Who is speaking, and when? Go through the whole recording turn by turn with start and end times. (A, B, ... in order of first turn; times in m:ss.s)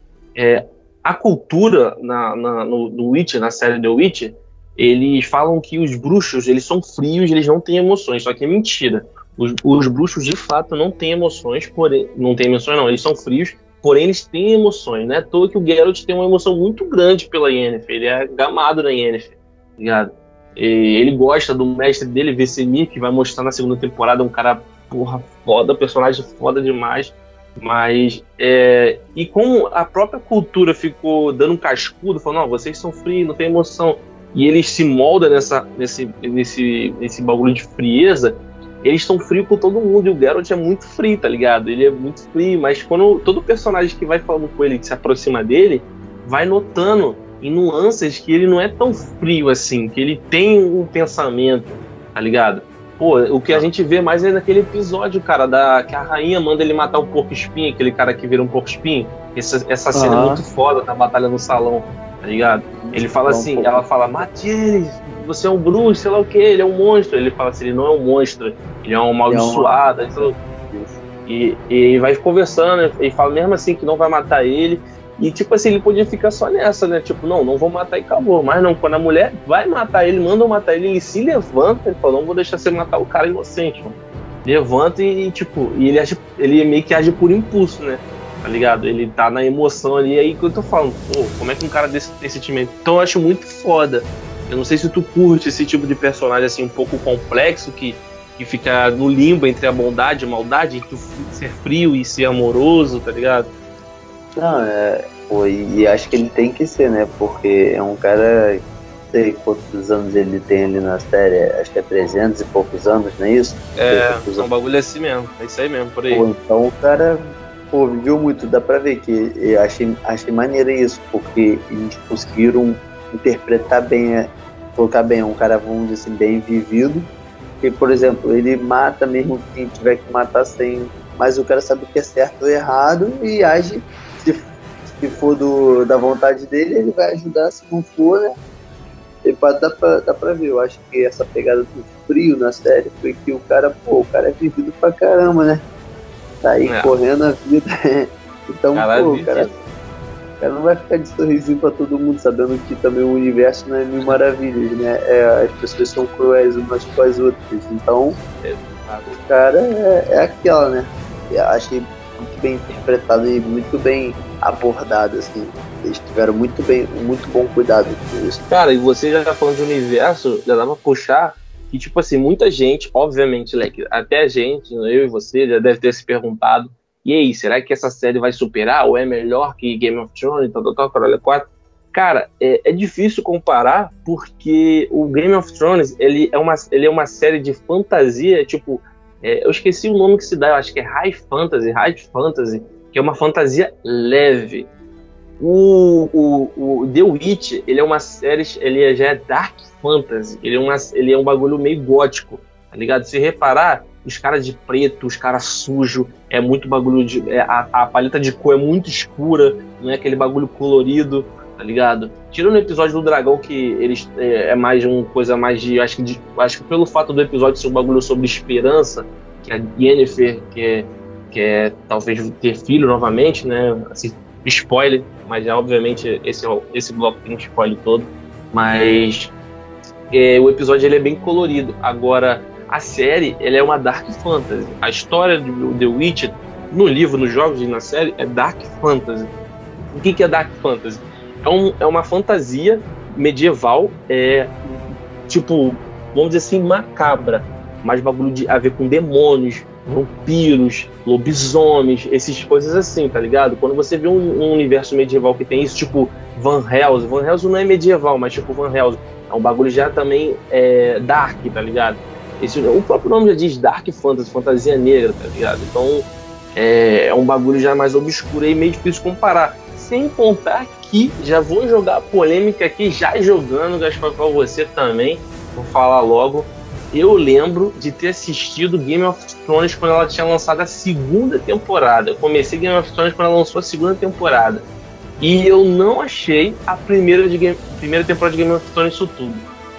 0:00.3-1:10.3 A
0:59.9-1:00.4 B
1:02.8-1:03.8 B
1:09.3-1:11.0 B
1:11.3-1:43.5 A
1:44.4-1:54.5 B
1:53.8-1:56.3 A
1:56.1-2:07.1 B
2:07.6-2:18.4 B
2:19.2-2:25.6 B
2:26.4-2:29.5 B
2:26.6-2:27.0 A
2:28.7-2:29.6 A
2:30.4-2:38.2 B
2:38.4-2:39.2 A
2:39.1-2:48.4 B
2:48.5-3:14.7 A
3:15.4-3:49.3 A
3:50.1-3:59.3 A
3:59.9-4:44.6 A
4:45.2-4:49.5 A